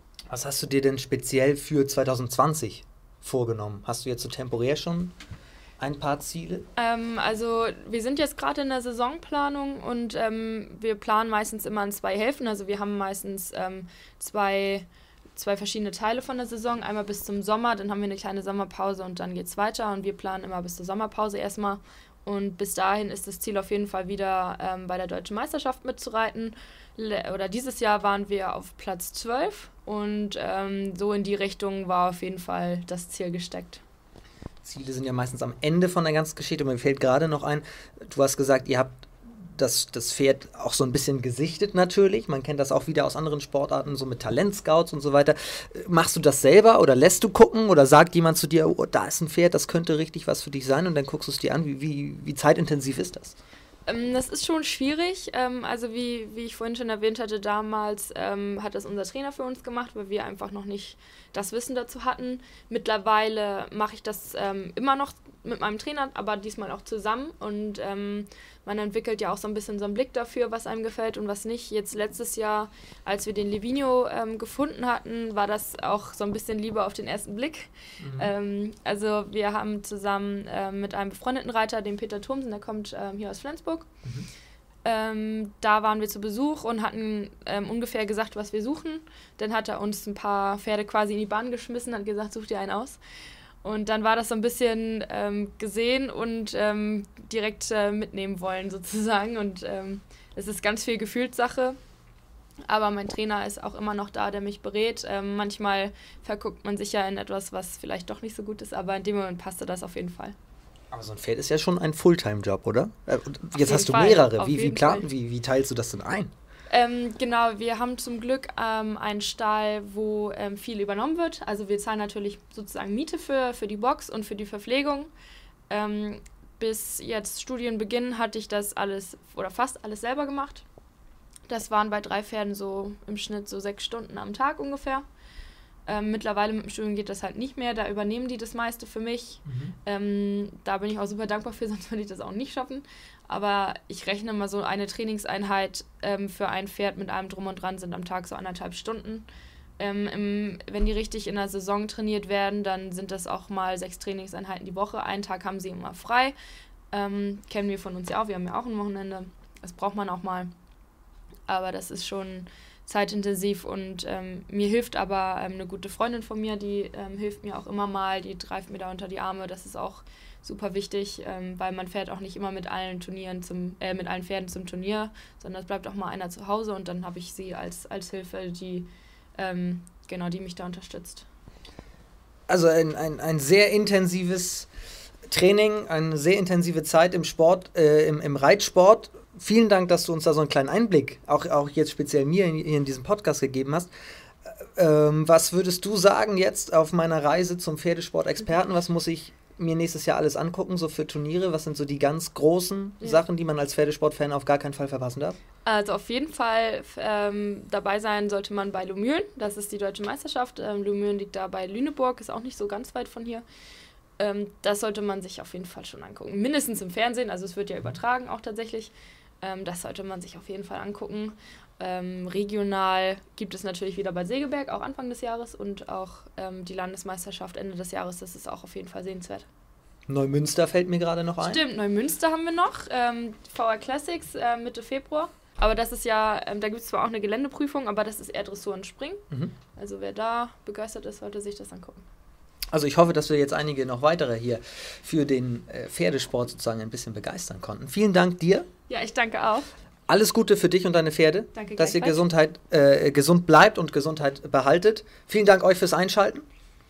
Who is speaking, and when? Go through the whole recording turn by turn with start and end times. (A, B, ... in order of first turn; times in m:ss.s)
0:00.3-0:05.1 A
0:05.8-0:06.7 A
0:06.8-0:33.8 B
0:34.6-0:53.4 A
0:53.9-1:23.9 B
1:18.0-1:18.3 A
1:24.8-1:33.0 B
1:33.6-1:41.8 B
1:42.7-1:50.4 B
1:50.9-1:56.3 A
1:53.6-1:55.1 B
1:56.7-2:05.1 B
2:05.7-2:10.6 B
2:11.5-2:15.0 B
2:15.9-2:29.3 B
2:19.5-2:19.8 A
2:29.8-2:36.4 B
2:36.9-2:40.5 B
2:41.5-3:01.3 B
3:02.5-3:04.7 A
3:05.3-3:13.9 A
3:14.5-3:25.4 A
3:25.6-3:33.4 B
3:34.2-3:49.5 B
3:50.1-3:51.6 A
3:51.4-3:59.2 B
3:59.8-4:02.0 B
4:02.7-4:08.7 A
4:08.9-4:09.7 B
4:10.1-4:16.5 A
4:11.5-4:12.2 B